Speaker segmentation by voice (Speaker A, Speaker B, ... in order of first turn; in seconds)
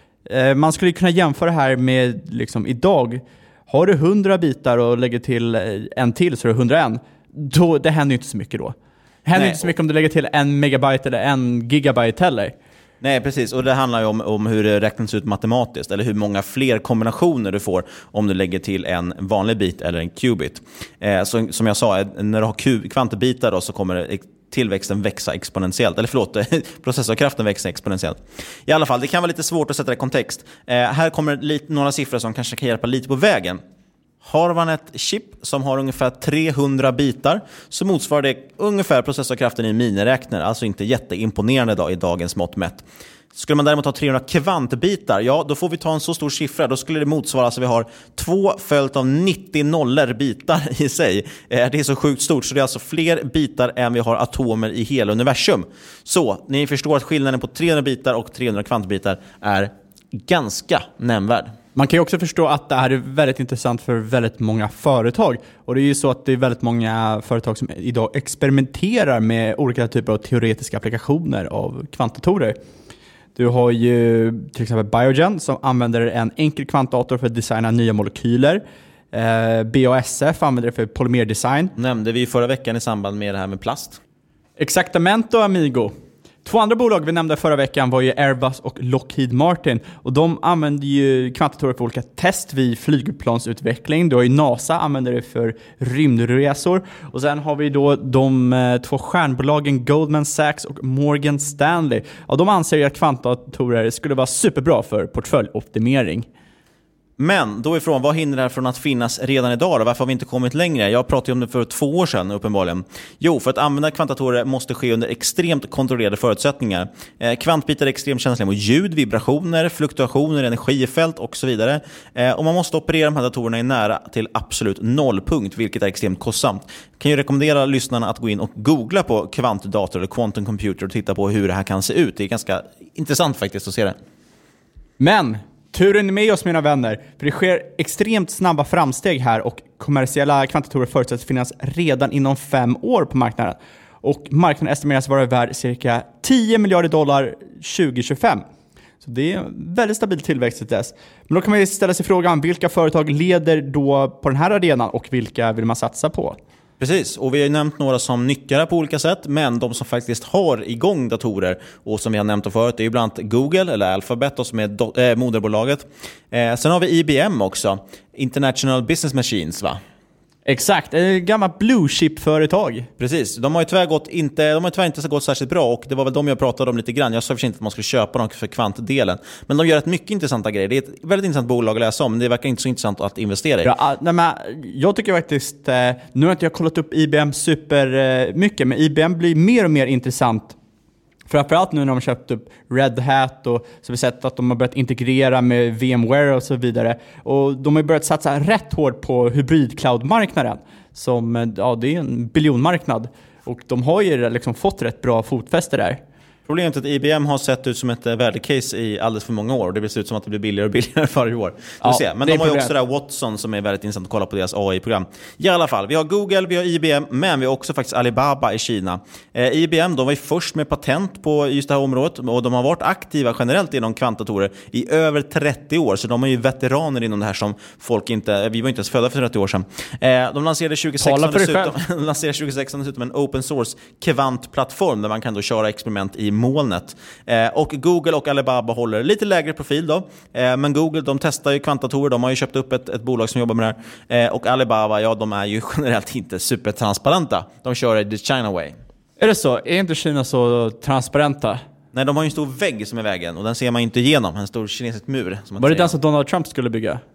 Speaker A: 0.3-12.6, 61.8-72.6, 73.4-78.6, 79.1-81.7, 84.6-85.9, 86.5-106.3, 135.0-148.4, 149.0-156.4, 170.5-172.9, 183.6-190.6, 191.3-206.0, 211.8-212.7, 231.0-231.8, 249.2-251.6, 255.6-257.0
Speaker B: 9.3-9.7, 13.0-33.6, 34.2-42.8, 43.3-61.5, 81.8-84.0, 107.2-134.0, 156.8-169.8, 173.0-183.7, 206.5-248.8, 251.9-255.9